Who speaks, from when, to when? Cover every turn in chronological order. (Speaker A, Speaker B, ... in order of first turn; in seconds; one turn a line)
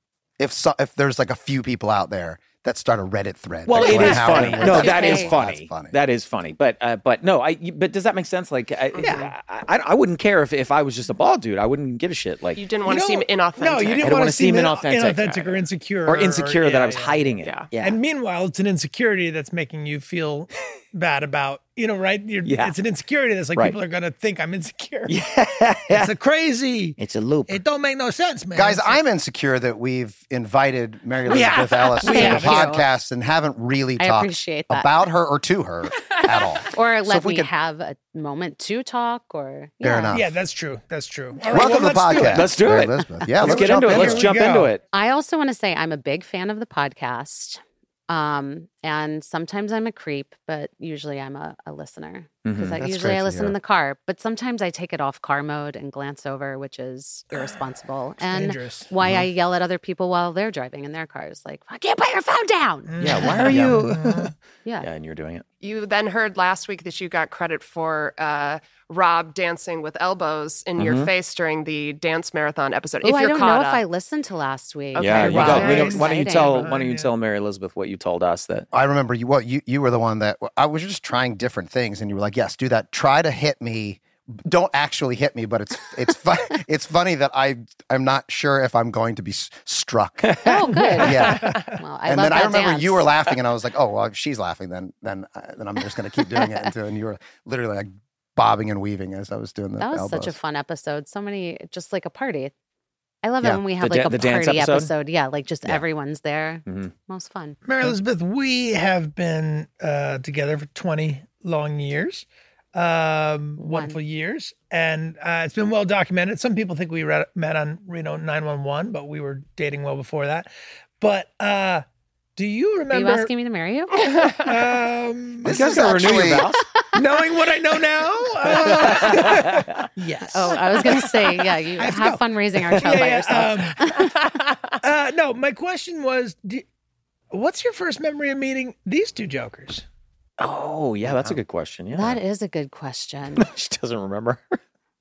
Speaker A: 0.4-6.0
Speaker B: 3.7-12.6
Speaker C: 4.1-5.3
Speaker D: 8.9-9.3
Speaker E: 9.0-9.3
Speaker D: 12.6-14.2
Speaker E: 12.9-25.2
Speaker B: 14.0-18.0
Speaker D: 17.4-17.7
Speaker B: 22.4-22.8
Speaker B: 25.1-26.1
Speaker E: 25.9-29.0
Speaker B: 27.0-27.6
Speaker A: 28.6-37.5
Speaker E: 31.3-32.8
Speaker C: 32.0-32.8
Speaker C: 34.0-34.9
Speaker C: 36.7-40.2
Speaker A: 39.8-40.3
Speaker E: 40.1-42.6
Speaker A: 41.4-44.3
Speaker B: 42.3-44.8
Speaker E: 43.4-44.7
Speaker C: 44.9-63.4
Speaker B: 52.5-52.8
Speaker A: 52.7-53.5
Speaker E: 58.2-58.9
Speaker E: 62.9-64.3
Speaker B: 63.0-65.5
Speaker A: 63.5-63.9
Speaker D: 65.6-73.8
Speaker B: 70.8-71.1
Speaker C: 73.0-76.7
Speaker D: 74.9-76.0
Speaker B: 75.0-78.7
Speaker E: 75.2-77.1
Speaker A: 78.7-90.5
Speaker B: 90.2-91.0
Speaker C: 90.4-93.1
Speaker E: 90.7-91.7
Speaker A: 91.0-100.4
Speaker C: 96.4-96.7
Speaker C: 99.8-102.5
Speaker C: 103.2-107.6
Speaker B: 103.4-104.9
Speaker B: 106.7-106.9
Speaker E: 107.7-121.8
Speaker C: 113.6-114.0
Speaker E: 122.4-123.3
Speaker C: 122.9-124.0
Speaker E: 124.0-125.8
Speaker A: 125.4-126.5
Speaker B: 125.5-126.7
Speaker E: 126.9-134.1
Speaker B: 128.5-129.8
Speaker C: 130.3-134.1
Speaker E: 134.8-136.7
Speaker E: 137.3-139.8
Speaker B: 140.4-142.2
Speaker A: 141.1-141.4
Speaker C: 141.9-143.5
Speaker B: 143.4-144.6